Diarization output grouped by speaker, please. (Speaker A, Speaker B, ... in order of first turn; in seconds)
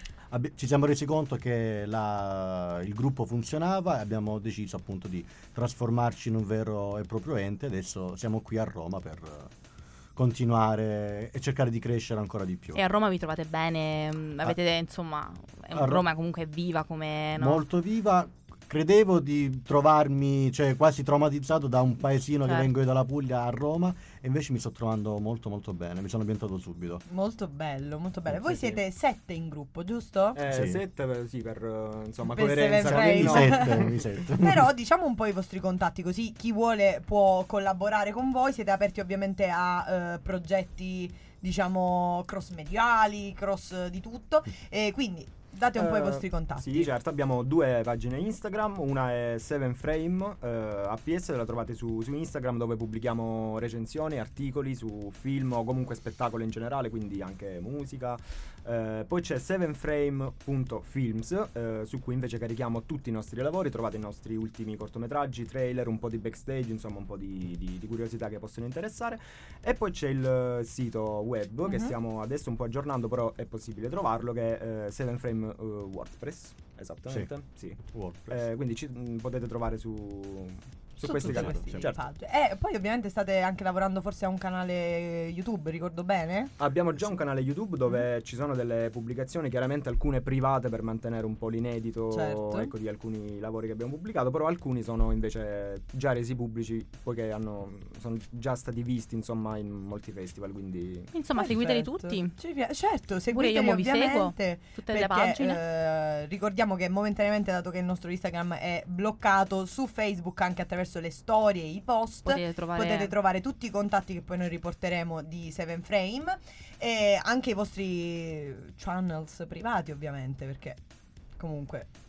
Speaker A: 0.3-9.5, 10.2-12.8, 15.7-16.0, 17.4-27.0, 30.5-30.8, 32.8-34.7, 77.1-78.4, 81.2-81.8
Speaker B: 12.8-17.6, 22.4-22.7, 101.1-102.4, 103.3-105.6, 112.2-113.1
Speaker C: 27.1-30.4, 32.2-46.9, 71.6-71.9, 81.0-86.5, 92.1-92.7, 101.3-120.8, 121.4-121.9
Speaker D: 28.5-28.8, 30.3-34.0, 45.7-82.0, 86.6-101.1